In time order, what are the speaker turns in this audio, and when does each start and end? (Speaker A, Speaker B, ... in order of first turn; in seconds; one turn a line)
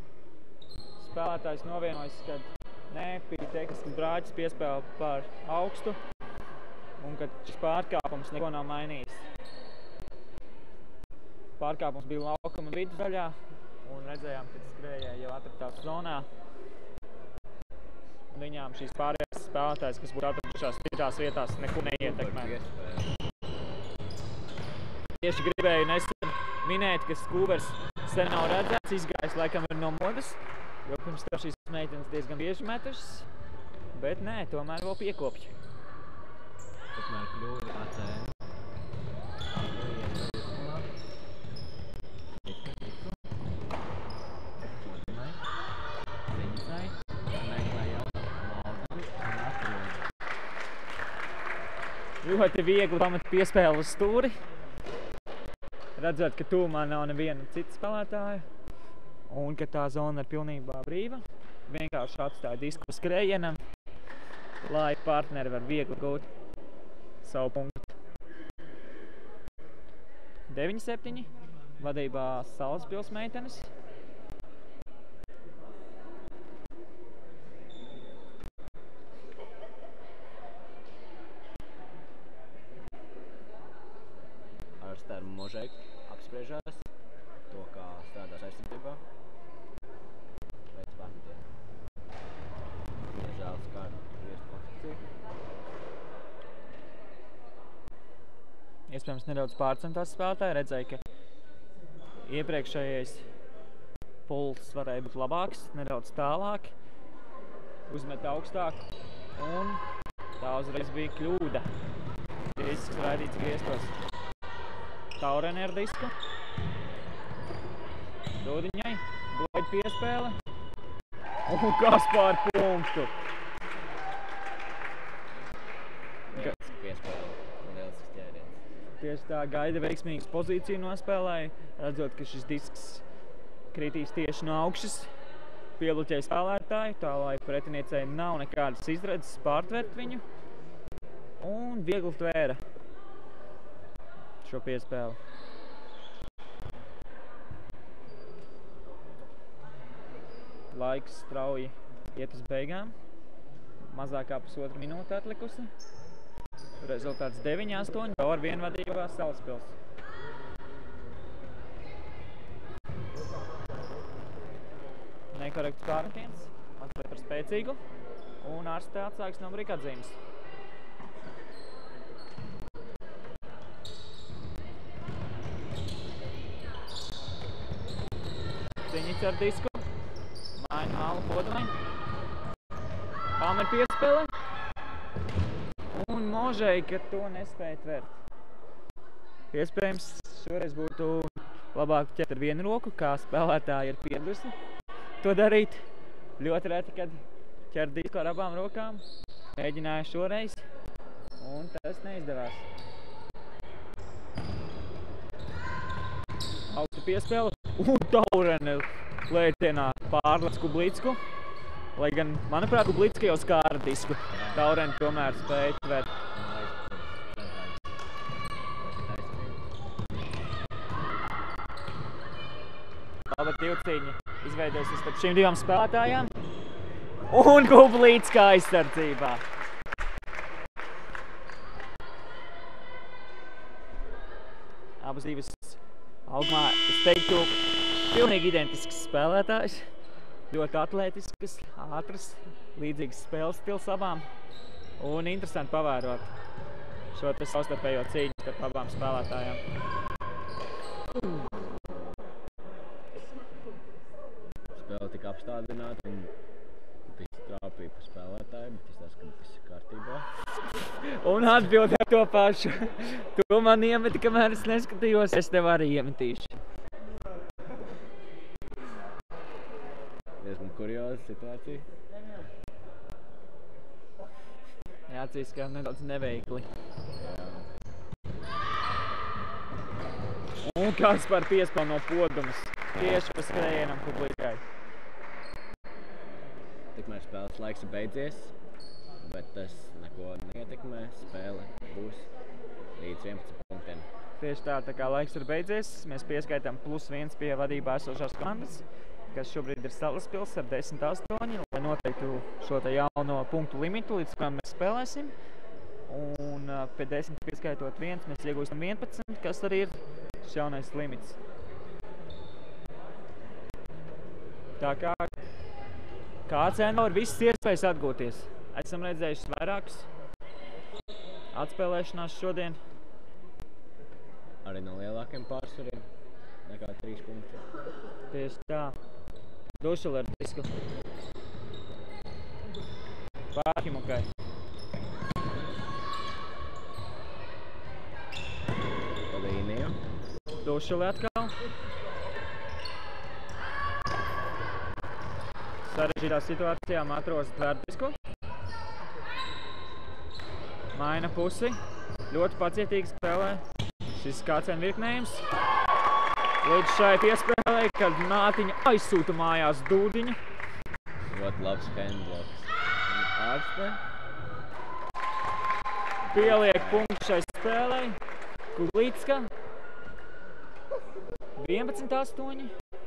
Speaker A: 1.0-6.0
Speaker A: 7.0-9.2
Speaker A: 11.6-16.3
Speaker A: 18.3-22.5
Speaker B: 21.8-23.2
Speaker A: 25.2-33.3
Speaker A: 33.9-35.5
Speaker B: 36.9-38.3
Speaker B: 39.5-40.9
Speaker B: 42.4-43.2
Speaker B: 44.7-45.4
Speaker B: 46.3-50.0
Speaker A: 52.2-54.3
Speaker A: 56.0-58.4
Speaker A: 59.3-63.6
Speaker A: 64.6-66.2
Speaker A: 67.2-67.9
Speaker A: 70.5-73.7
Speaker B: 84.8-86.9
Speaker B: 87.5-89.0
Speaker B: 90.7-91.5
Speaker B: 93.1-95.0
Speaker A: 98.9-101.0
Speaker A: 102.2-103.2
Speaker A: 104.3-106.7
Speaker A: 107.9-108.8
Speaker A: 109.3-109.8
Speaker A: 110.4-111.7
Speaker A: 112.5-113.9
Speaker A: 115.2-116.1
Speaker A: 118.4-120.3
Speaker A: 121.5-123.1
Speaker B: 126.3-128.6
Speaker A: 129.0-133.0
Speaker A: 133.7-135.1
Speaker A: 135.8-140.2
Speaker A: 141.4-142.6
Speaker A: 144.4-145.2
Speaker A: 150.7-152.9
Speaker A: 153.9-155.7
Speaker A: 156.8-159.7
Speaker A: 165.3-167.8
Speaker A: 168.4-170.2
Speaker A: 178.9-179.8
Speaker A: 180.6-181.7
Speaker A: 183.4-184.3
Speaker A: 185.9-188.1
Speaker A: 189.5-194.5
Speaker A: 195.2-195.8
Speaker A: 196.4-197.2
Speaker A: 197.7-199.0
Speaker A: 199.6-200.6
Speaker A: 201.4-202.6
Speaker A: 206.7-211.2
Speaker A: 211.9-216.1
Speaker B: 214.3-214.7
Speaker B: 216.3-217.8
Speaker B: 218.8-219.6
Speaker A: 223.3-226.3
Speaker A: 227.3-229.4
Speaker A: 235.0-239.8
Speaker A: 240.5-244.2
Speaker A: 245.0-246.3
Speaker A: 247.1-249.6
Speaker B: 254.8-256.3
Speaker B: 257.1-260.2
Speaker A: 261.0-266.5
Speaker B: 270.4-271.9
Speaker A: 275.1-276.6
Speaker B: 277.2-277.6
Speaker A: 280.6-284.6
Speaker B: 286.9-288.5
Speaker B: 289.2-292.3
Speaker B: 292.9-294.1
Speaker A: 294.4-305.3
Speaker A: 306.1-311.4
Speaker A: 314.8-315.3
Speaker A: 316.5-320.1
Speaker A: 321.5-322.8
Speaker B: 324.6-326.1
Speaker B: 326.6-327.6
Speaker A: 328.3-329.0
Speaker A: 329.8-330.7
Speaker A: 333.5-334.2
Speaker B: 339.3-340.0
Speaker A: 340.6-341.5
Speaker A: 345.8-348.1
Speaker A: 350.9-351.8
Speaker A: 352.3-353.6
Speaker A: 354.1-355.4
Speaker A: 356.6-360.4
Speaker B: 361.3-364.0
Speaker B: 366.2-367.1
Speaker A: 366.3-368.2
Speaker A: 368.7-369.5
Speaker A: 371.6-372.7